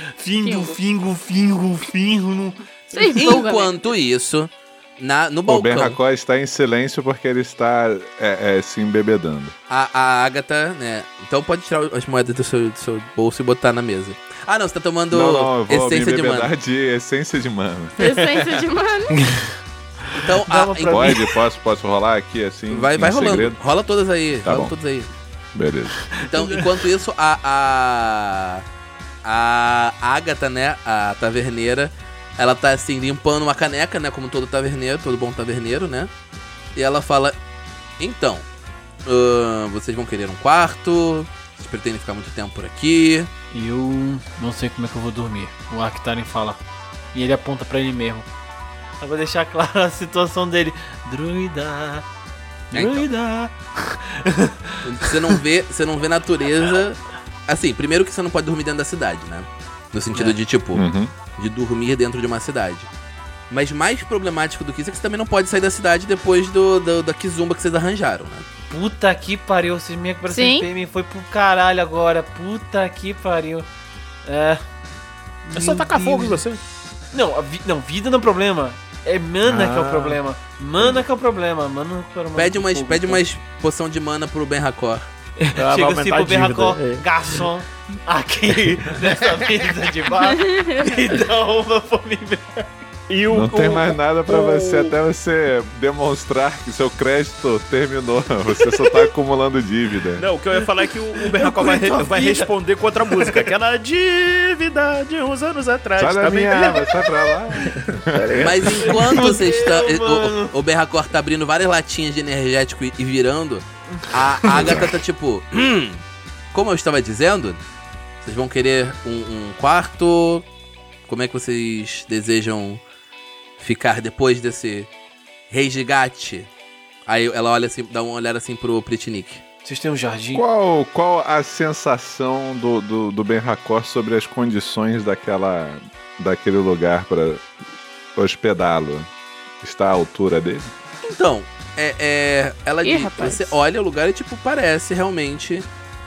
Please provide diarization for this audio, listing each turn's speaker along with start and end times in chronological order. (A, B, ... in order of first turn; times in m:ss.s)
0:00.2-0:03.4 A
0:00.4-0:00.8 B
0:02.9-0:03.7 B
0:03.2-0:06.0 C
0:05.5-0:09.5 D
0:09.7-0:16.5 C
0:15.1-0:18.0 D
0:18.0-0:19.2 B
0:19.2-0:19.5 A
0:20.1-0:21.3 C
0:20.2-0:21.4 A
0:20.9-0:23.6 D
0:22.7-0:25.1 C
0:24.4-0:24.7 D
0:25.5-0:26.1 D
0:26.2-0:28.6 C
0:26.3-0:26.6 A
0:29.2-0:36.1 C
0:36.7-0:37.4 C
0:38.0-0:38.4 C
0:39.0-0:43.3 C
0:43.5-0:46.6 A
0:47.1-0:48.3 A
0:49.0-0:52.0 A
0:52.7-0:55.3 A
0:52.7-0:53.1 C
0:54.8-1:02.9 C
1:00.7-1:01.1 D
1:03.5-1:08.4 C
1:08.7-1:13.7 A
1:10.3-1:10.7 B
1:14.2-1:14.6 A
1:15.4-1:16.4 A
1:15.5-1:16.6 E
1:17.1-1:23.2 A
1:19.5-1:20.2 E
1:22.4-1:25.0 C
1:25.4-1:32.7 A
1:25.5-1:27.4 E
1:29.0-1:29.5 E
1:30.2-1:31.0 B
1:33.1-1:34.9 E
1:33.3-1:40.2 D
1:40.2-1:47.0 E
1:41.2-1:42.5 A
1:43.1-1:43.5 A
1:46.0-1:49.0 D
1:47.7-1:48.6 E
1:48.4-1:56.0 C
1:48.8-1:50.5 A
1:54.5-1:55.0 D
1:56.5-1:57.6 C
1:58.2-2:00.4 C
2:01.1-2:02.8 C
2:03.6-2:04.9 C
2:05.5-2:06.5 C
2:07.1-2:09.4 C
2:09.6-2:10.4 A
2:10.3-2:17.4 D
2:18.1-2:19.1 D
2:19.6-2:20.7 D
2:21.0-2:25.7 C
2:22.8-2:23.6 B